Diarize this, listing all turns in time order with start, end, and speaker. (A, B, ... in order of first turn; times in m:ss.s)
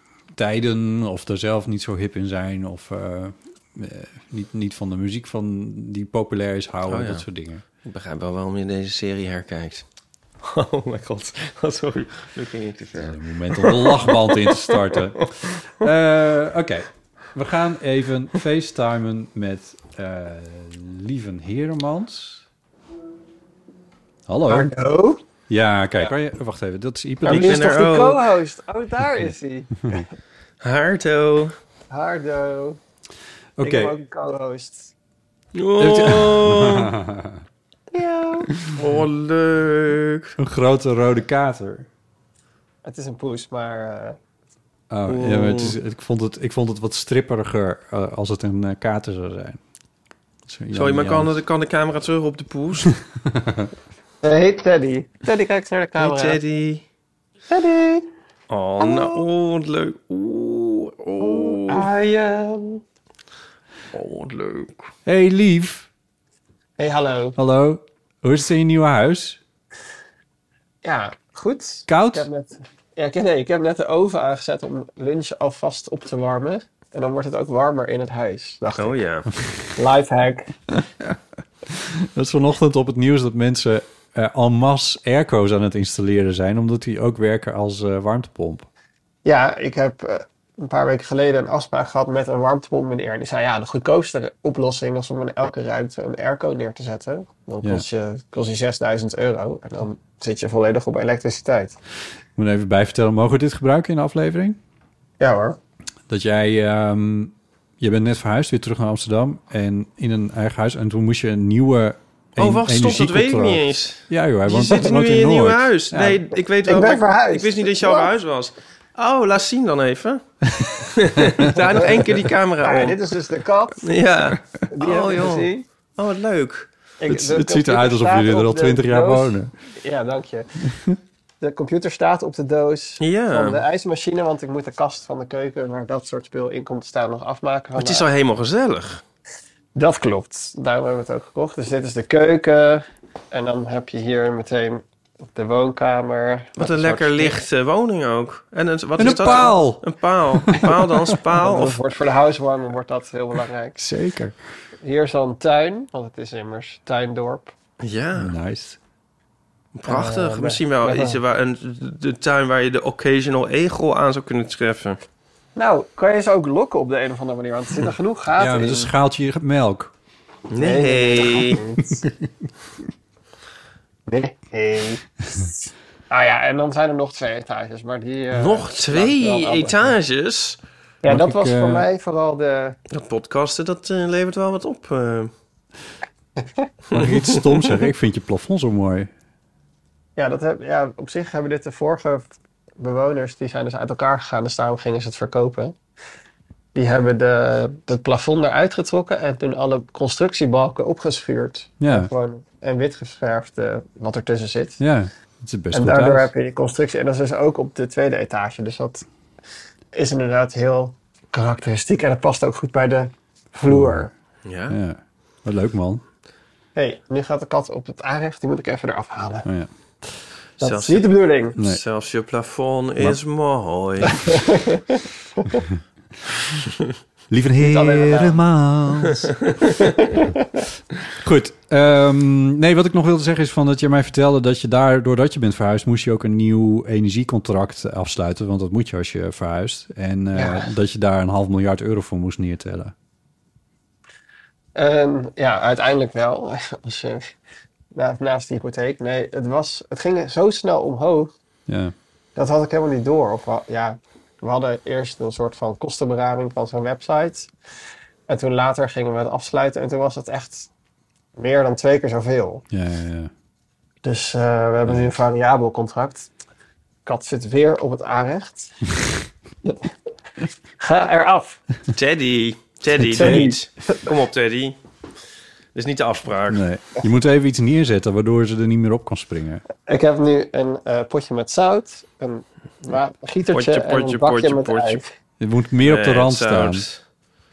0:00.3-0:07.6 A
0:06.8-0:07.2 B
0:07.8-0:09.8 B
0:10.4-0:14.2 B
0:12.9-0:22.4 A
0:24.3-0:24.7 A
0:24.5-0:25.2 C
0:25.5-0:27.8 A
0:27.2-0:30.0 C
0:27.2-0:28.2 B
0:30.6-0:31.5 B
0:31.9-0:32.8 C
0:33.6-0:33.9 A
0:33.6-0:34.9 C
0:35.5-0:36.9 B
0:35.8-0:37.4 A
0:37.9-0:38.5 C
0:38.7-0:40.3 B
0:40.4-0:41.9 A
0:42.8-0:44.2 C
0:44.9-0:49.6 A
0:45.1-0:45.8 B
0:50.5-0:51.3 A
0:50.7-0:52.9 B
0:53.2-0:53.7 A
0:54.2-0:56.4 C
0:56.0-0:56.8 B
0:57.5-0:58.1 C
0:58.5-1:01.9 B
0:58.8-0:59.2 C
1:01.2-1:02.8 C
1:03.9-1:04.9 B
1:05.0-1:05.9 A
1:06.8-1:07.4 C
1:07.4-1:09.4 A
1:10.8-1:19.0 C
1:11.9-1:12.2 A
1:18.8-1:19.3 B
1:19.8-1:20.5 C
1:21.7-1:28.7 A
1:29.2-1:41.8 C
1:42.4-1:44.6 A
1:45.2-1:45.6 C
1:46.1-1:56.3 A
1:52.4-2:00.2 B
1:56.6-1:58.1 C
2:00.6-2:01.5 A
2:00.8-2:03.0 B
2:01.7-2:02.0 C
2:02.6-2:03.9 C
2:03.8-2:06.7 B
2:04.7-2:05.6 C
2:07.0-2:10.5 C
2:07.1-2:09.5 A
2:11.4-2:18.0 C
2:13.0-2:13.6 B
2:17.8-2:19.0 B
2:19.7-2:24.8 C
2:25.3-2:27.4 C
2:26.6-2:31.8 B
2:29.0-2:30.8 A
2:29.0-2:29.5 C
2:31.4-2:33.8 C
2:33.8-2:34.4 A
2:34.8-2:37.5 C
2:37.8-2:38.3 B
2:38.2-2:38.8 A
2:39.7-2:45.0 B
2:39.8-2:41.2 C
2:45.6-2:48.9 C
2:48.4-2:49.9 A
2:50.5-2:51.6 B
2:50.5-2:52.0 C
2:54.1-2:55.5 C
2:56.1-2:59.9 C
2:58.3-3:00.6 B
3:01.0-3:02.8 C
3:01.1-3:01.8 A
3:02.9-3:05.3 B
3:06.9-3:09.1 A
3:07.0-3:07.4 B
3:10.2-3:12.3 C
3:12.8-3:15.7 C
3:16.7-3:24.8 C
3:21.8-3:22.1 A
3:24.8-3:26.3 A
3:25.7-3:29.0 C
3:29.9-3:34.1 C
3:33.7-3:34.1 A
3:34.4-3:34.8 B
3:34.7-3:36.0 A
3:36.7-3:39.4 C
3:40.6-3:41.6 C
3:40.6-3:44.3 B
3:44.2-3:45.6 C
3:47.3-3:49.3 A
3:47.6-3:48.4 C
3:50.0-3:50.4 C
3:51.1-4:02.9 A
4:00.3-4:00.6 C
4:04.7-4:07.2 C
4:07.9-4:11.3 C
4:11.7-4:11.9 A
4:12.4-4:17.5 C
4:18.3-4:20.7 C
4:21.4-4:22.6 C
4:22.7-4:23.3 A
4:24.0-4:26.3 C
4:24.8-4:25.1 A
4:27.0-4:28.8 C
4:30.8-4:31.6 C
4:31.9-4:34.8 B
4:32.9-4:33.5 A
4:33.1-4:33.6 C
4:35.7-4:36.6 B
4:36.5-4:39.6 A
4:39.8-4:45.0 C
4:43.5-4:45.0 B
4:45.4-4:46.9 A
4:45.8-4:47.0 B